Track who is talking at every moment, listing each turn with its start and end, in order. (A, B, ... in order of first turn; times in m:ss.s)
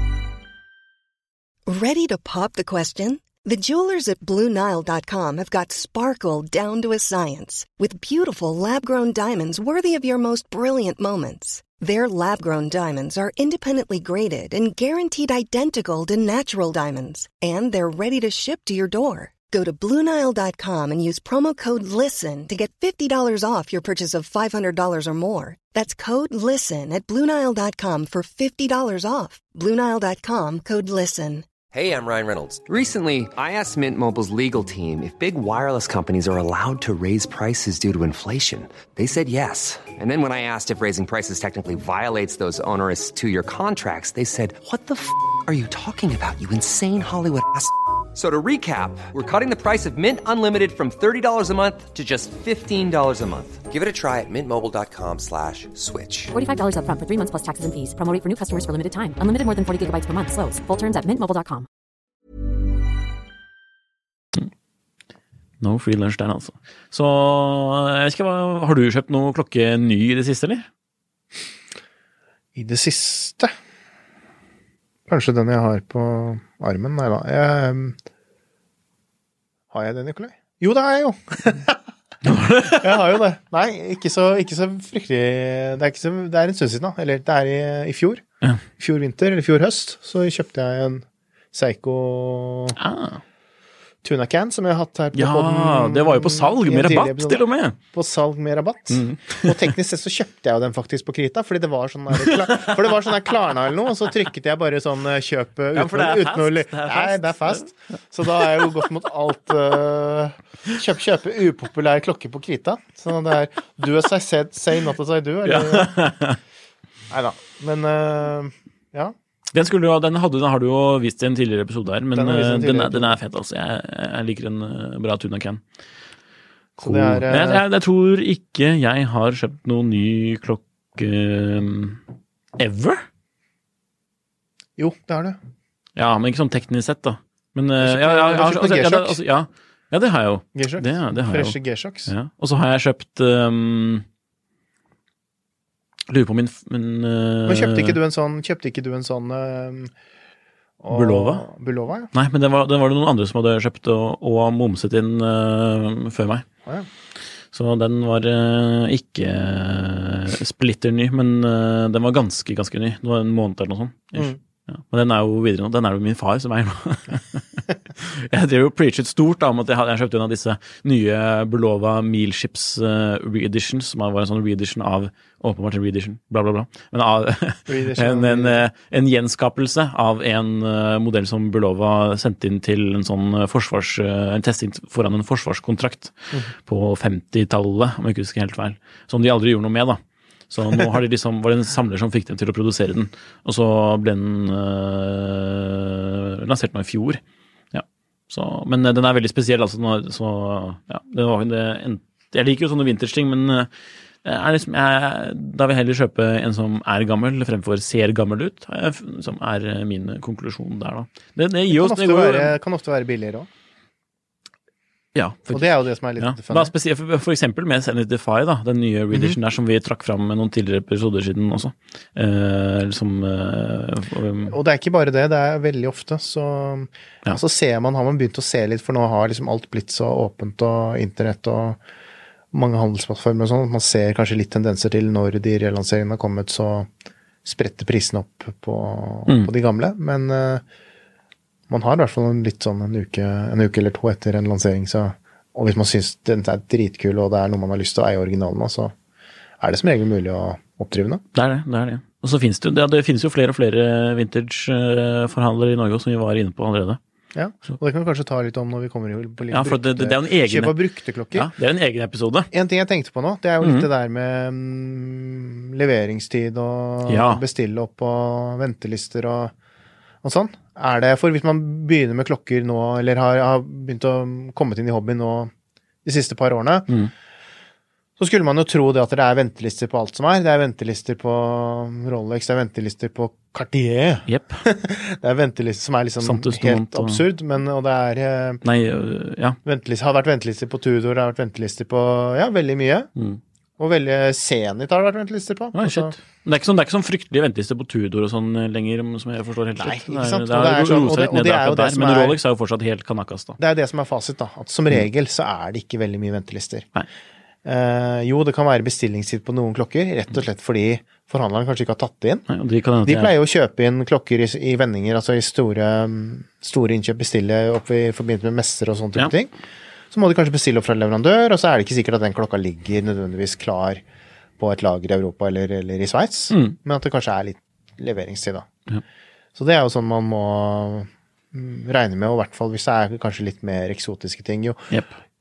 0:01.7-0:31.5 A
0:31.7-0:56.3 B
0:56.3-1:01.7 C
1:05.6-1:10.7 D
1:12.6-1:13.5 E
1:15.1-1:18.0 E
1:19.7-1:21.8 E
1:22.2-1:23.0 D
1:22.7-1:28.2 E
1:28.8-1:32.8 E
1:32.8-1:33.2 D
1:34.0-1:56.0 E
1:35.1-1:37.8 D
1:38.9-1:39.6 D
1:42.2-1:43.1 D
1:45.7-1:47.7 D
1:55.5-1:56.4 D
1:57.1-1:59.2 E
1:59.5-2:05.6 D
2:02.1-2:03.2 E
2:06.8-2:12.0 D
2:06.8-2:07.6 E
2:12.6-2:13.0 D
2:14.8-2:15.4 E
2:16.0-2:24.0 D
2:17.8-2:19.2 E
2:20.6-2:22.1 E
2:26.1-2:28.0 D
2:27.5-2:29.9 E
2:30.8-2:32.1 E
2:30.9-2:31.4 D
2:32.1-2:36.4 D
2:37.5-3:17.2 D
2:57.7-2:58.6 E
3:17.7-3:23.7 D
3:24.2-3:32.6 D
3:31.7-3:33.5 E
3:35.2-3:44.6 D
3:35.5-3:36.7 E
3:39.1-3:39.4 E
3:44.5-3:51.8 E
3:52.5-3:56.9 E
3:57.4-4:00.6 E
4:01.7-4:08.9 E
4:09.6-4:11.2 E
4:11.3-4:17.0 D
4:17.4-4:21.5 E
4:19.5-4:20.8 D
4:21.3-4:22.5 D
4:22.5-4:29.5 E
4:23.6-4:23.9 D
4:27.1-4:27.4 D
4:30.2-4:35.5 E
4:36.0-4:36.9 E
4:38.2-4:48.6 E
4:44.3-4:44.6 D
4:46.2-4:47.2 D
4:48.6-4:49.6 D
4:49.6-4:53.1 E
4:53.8-4:56.1 E
4:55.7-5:03.6 D
4:59.8-5:02.4 E
5:03.6-5:06.9 E
5:07.6-5:12.5 E
5:12.5-5:13.3 D
5:13.0-5:19.5 E
5:20.1-5:24.0 E
5:24.6-5:28.7 E
5:26.5-5:26.8 D
5:29.6-5:34.9 E